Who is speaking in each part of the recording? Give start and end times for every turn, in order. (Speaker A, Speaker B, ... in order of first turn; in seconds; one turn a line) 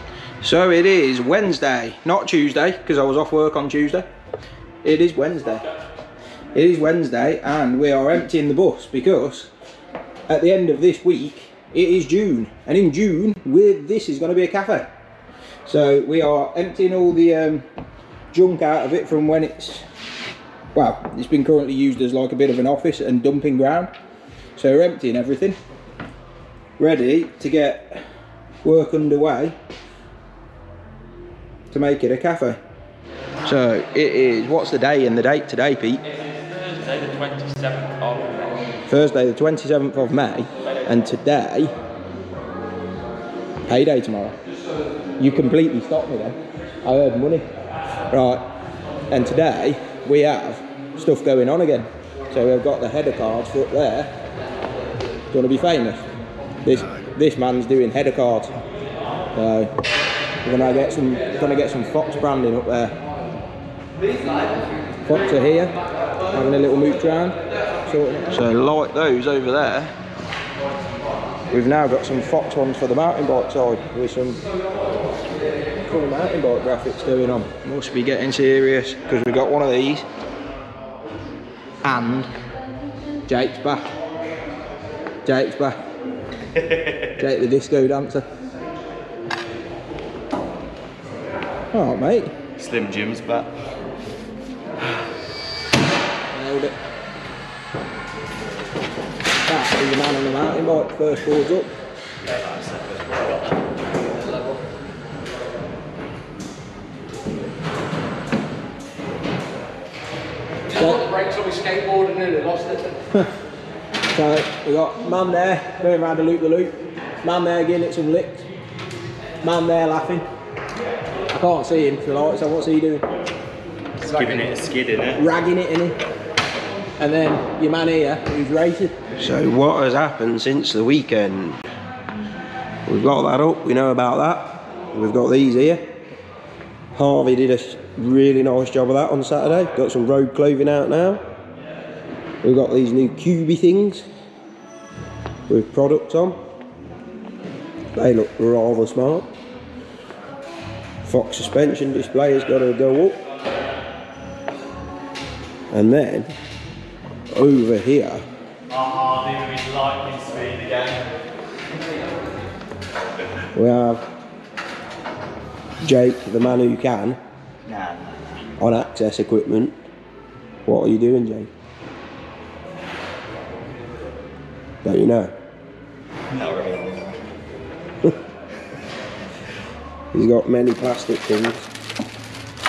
Speaker A: 0.4-4.1
Speaker A: 4.8-5.7
Speaker A: 6.5-9.5
Speaker A: 10.3-14.9
Speaker A: 15.7-17.6
Speaker A: 18.3-19.8
Speaker A: 20.7-23.9
Speaker A: 24.6-25.6
Speaker A: 26.8-28.0
Speaker A: 28.6-29.6
Speaker A: 31.7-32.6
Speaker A: 33.4-36.0
Speaker B: 36.8-38.5
Speaker A: 38.9-41.7
Speaker A: 43.7-44.3
Speaker A: 45.2-47.5
Speaker A: 48.1-48.5
Speaker A: 49.1-54.1
Speaker A: 55.3-56.0
Speaker A: 56.6-58.5
Speaker A: 59.3-59.7
Speaker A: 60.4-63.0
Speaker C: 64.1-65.0
Speaker A: 65.0-69.9
Speaker A: 71.5-74.4
Speaker A: 75.8-80.0
Speaker A: 81.8-82.3
Speaker A: 83.3-83.9
Speaker A: 85.2-85.8
Speaker B: 86.7-87.1
Speaker A: 87.2-88.2
Speaker A: 91.7-92.3
Speaker B: 92.6-93.5
Speaker A: 96.3-96.8
Speaker A: 99.5-101.7
Speaker B: 102.2-103.5
Speaker C: 104.2-104.6
Speaker C: 110.7-113.0
Speaker A: 110.7-111.0
Speaker A: 114.1-118.5
Speaker A: 119.4-120.2
Speaker A: 121.3-123.1
Speaker B: 124.0-125.2
Speaker A: 125.2-126.0
Speaker A: 127.0-131.6
Speaker A: 132.8-135.8
Speaker A: 136.9-141.2
Speaker A: 142.4-144.0
Speaker A: 145.5-146.4
Speaker A: 147.9-149.3
Speaker A: 151.0-153.2
Speaker A: 155.7-156.3
Speaker A: 157.3-158.2
Speaker B: 158.7-161.1
Speaker A: 163.5-164.0
Speaker A: 165.8-167.2
Speaker B: 167.7-168.4
Speaker A: 168.6-169.7
Speaker A: 170.7-171.5
Speaker A: 174.8-175.3
Speaker B: 176.3-177.2
Speaker A: 180.1-181.7